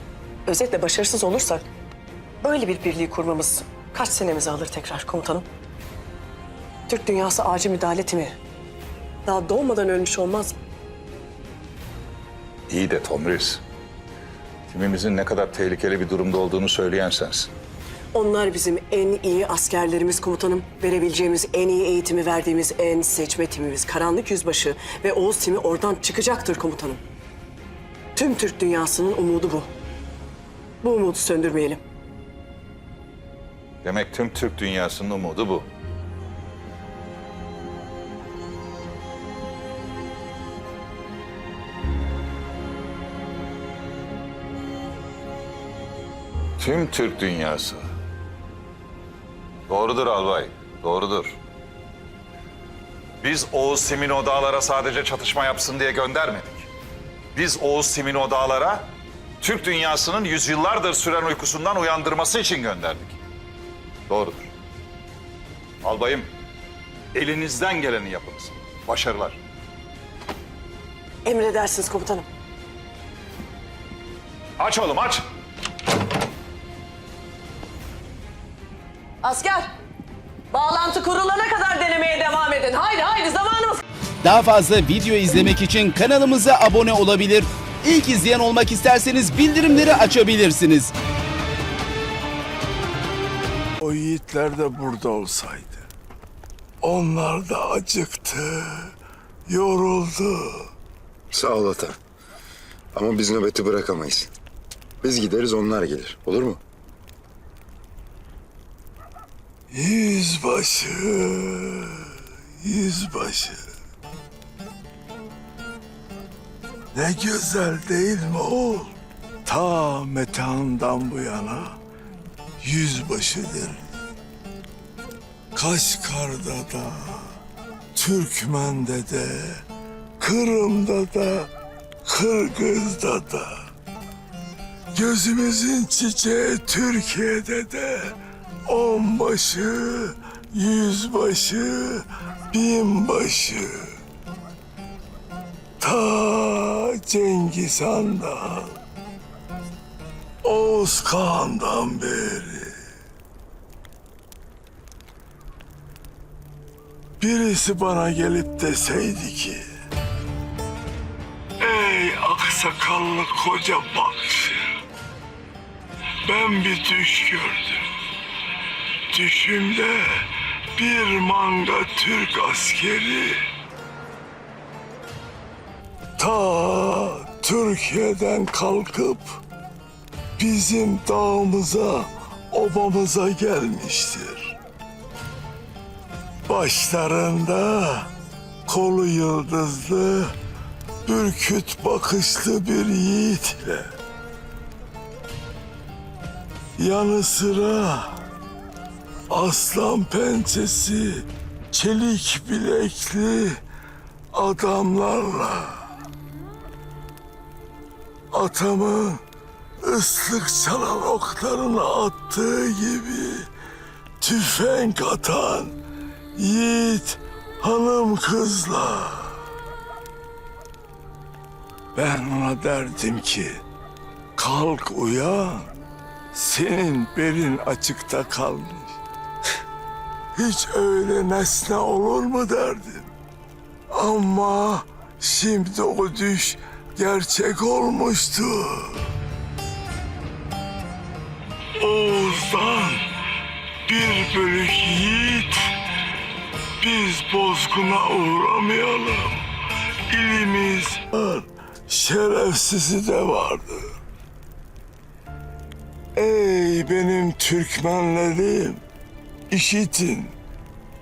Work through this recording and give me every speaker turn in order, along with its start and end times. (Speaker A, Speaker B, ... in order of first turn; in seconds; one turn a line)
Speaker A: 0.5-1.7
Speaker A: 2.4-5.5
Speaker A: 6.9-8.4
Speaker A: 9.2-10.6
Speaker B: 12.7-13.6
Speaker B: 14.7-17.5
Speaker A: 18.1-27.0
Speaker A: 28.1-29.7
Speaker A: 30.8-31.8
Speaker B: 33.8-35.7
Speaker B: 46.6-47.9
Speaker B: 49.7-51.4
Speaker B: 53.2-56.7
Speaker B: 57.3-63.2
Speaker B: 64.1-64.5
Speaker B: 65.8-66.3
Speaker B: 67.1-69.4
Speaker A: 71.2-72.3
Speaker B: 74.6-75.2
Speaker A: 79.2-79.7
Speaker A: 80.5-83.8
Speaker C: 84.2-90.9
Speaker D: 93.8-95.8
Speaker D: 96.8-98.9
Speaker D: 99.5-100.7
Speaker E: 101.3-102.0
Speaker E: 102.9-104.3
Speaker E: 105.0-106.6
Speaker D: 109.7-112.0
Speaker D: 112.6-113.6
Speaker D: 116.9-118.9
Speaker D: 119.5-121.8
Speaker D: 122.6-123.9
Speaker D: 125.5-127.3
Speaker D: 127.9-129.6
Speaker D: 130.2-131.5
Speaker D: 132.0-133.6
Speaker D: 134.9-143.8
Speaker D: 145.8-148.7
Speaker D: 150.4-152.7
Speaker D: 157.2-159.6
Speaker D: 161.6-164.6
Speaker D: 166.2-167.8
Speaker D: 169.1-173.4
Speaker D: 176.2-179.4
Speaker D: 180.4-184.6
Speaker D: 186.5-188.1
Speaker D: 188.7-190.3
Speaker D: 191.1-193.9
Speaker D: 196.8-198.2
Speaker D: 199.3-203.6
Speaker D: 204.3-205.9
Speaker D: 208.3-209.2
Speaker D: 209.8-213.5
Speaker D: 214.2-215.7
Speaker D: 216.3-219.3
Speaker D: 221.9-223.6
Speaker D: 224.4-225.7
Speaker D: 226.3-228.9
Speaker D: 230.4-233.1
Speaker D: 233.9-239.1
Speaker D: 241.8-243.1
Speaker D: 243.9-245.7
Speaker D: 246.8-249.4
Speaker D: 250.1-253.9
Speaker D: 256.1-258.8
Speaker D: 259.5-260.3